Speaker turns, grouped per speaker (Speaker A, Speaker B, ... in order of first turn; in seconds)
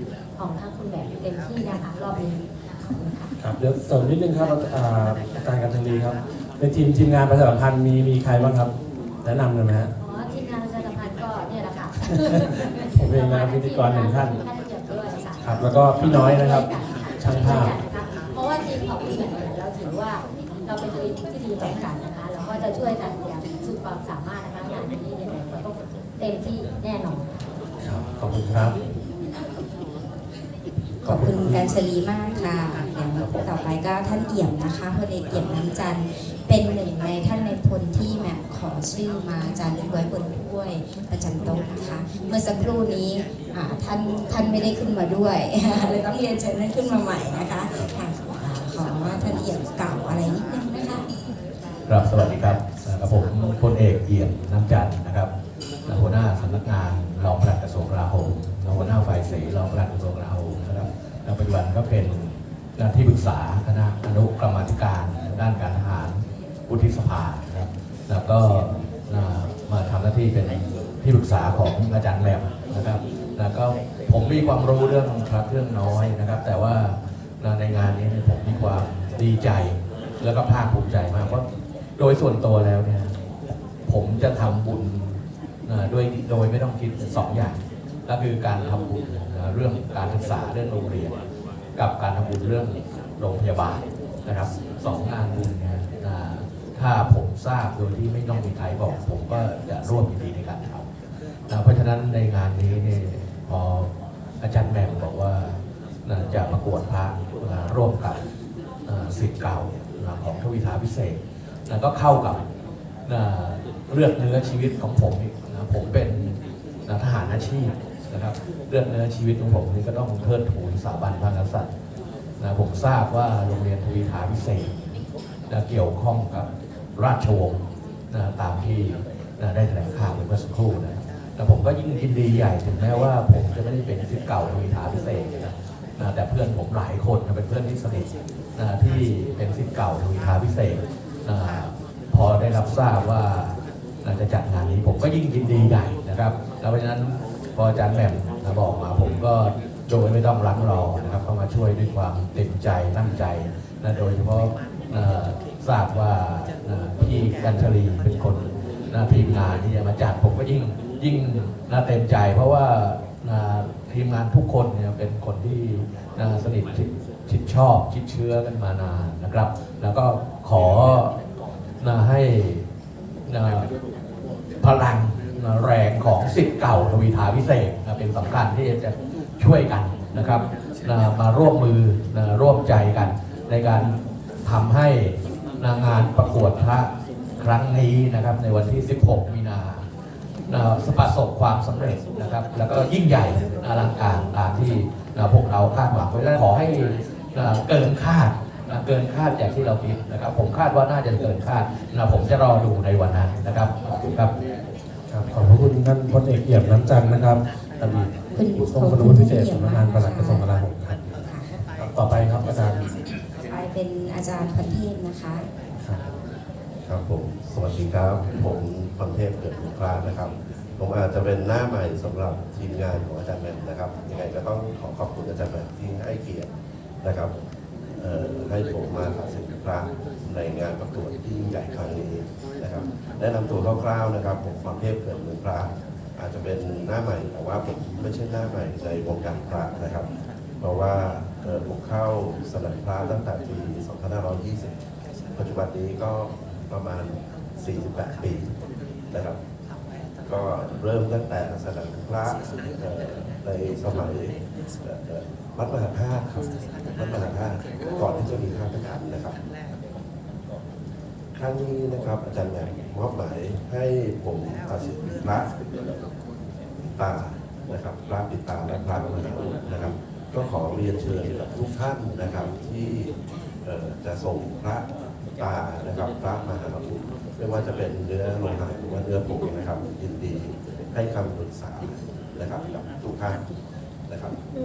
Speaker A: 0.3-3.3, 10.0-27.4
Speaker B: 3.4-8.7, 9.2-9.9, 12.9-14.4, 15.4-16.7, 17.2-17.8, 27.8-28.8, 31.0-31.7, 33.1-33.5, 205.1-211.0, 211.8-212.9, 215.8-216.0
Speaker C: 31.0-51.0, 208.3-210.5, 211.2-211.6, 213.5-215.4
Speaker D: 51.9-55.3, 55.9-81.4, 82.0-83.1, 83.8-91.2, 91.7-100.9, 101.5-108.2, 108.8-112.4, 113.0-121.7, 122.4-171.2, 171.8-172.7, 173.3-173.7, 174.6-189.9, 190.5-204.3
Speaker E: 216.8-226.5, 227.0-227.3, 228.0-240.1, 240.6-244.7, 245.3-248.5, 249.1-249.4, 250.2-256.4, 256.9-259.4, 261.4-265.5, 266.8-273.1, 273.6-274.8, 275.4-283.4, 284.1-284.3